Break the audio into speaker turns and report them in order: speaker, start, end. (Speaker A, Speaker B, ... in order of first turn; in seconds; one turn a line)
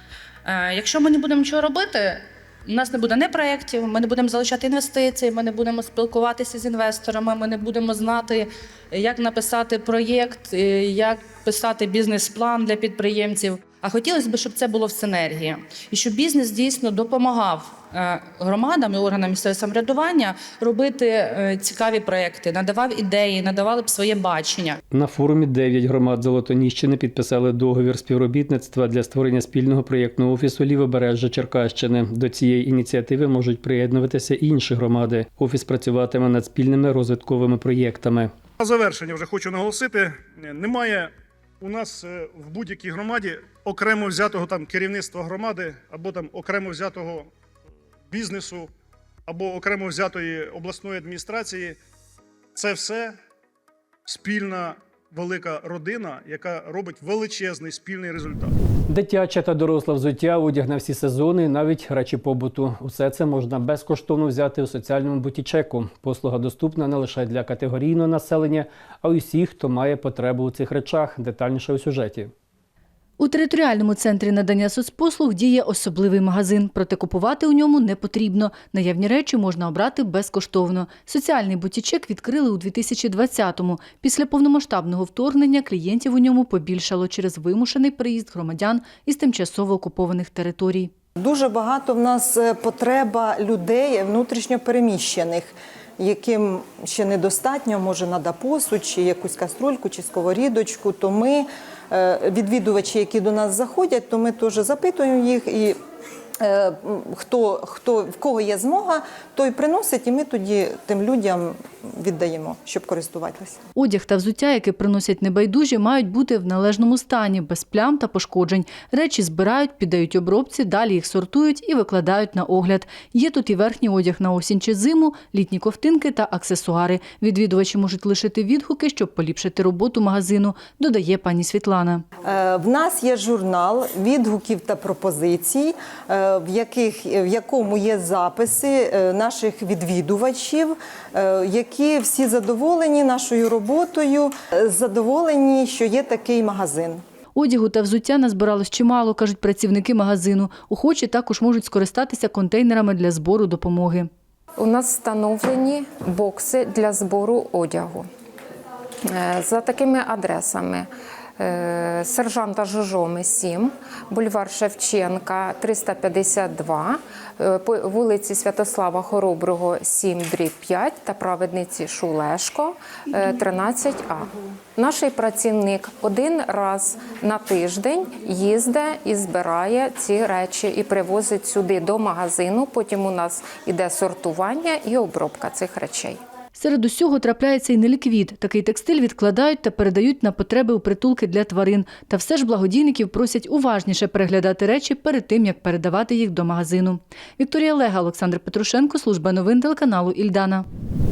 Speaker A: 0.5-24.8
Speaker B: 24.9-38.3
Speaker C: 38.6-47.3
Speaker C: 48.1-48.7
Speaker C: 49.3-51.8
Speaker C: 52.5-53.1
Speaker C: 54.0-58.5
Speaker B: 58.9-72.3
Speaker D: 73.2-90.9
Speaker E: 91.2-105.8
Speaker E: 106.4-113.6
Speaker D: 113.8-132.0
Speaker E: 132.2-147.0
Speaker D: 147.3-154.1
Speaker F: 154.6-158.1
Speaker F: 159.1-160.9
Speaker F: 161.4-186.2
Speaker D: 186.6-200.7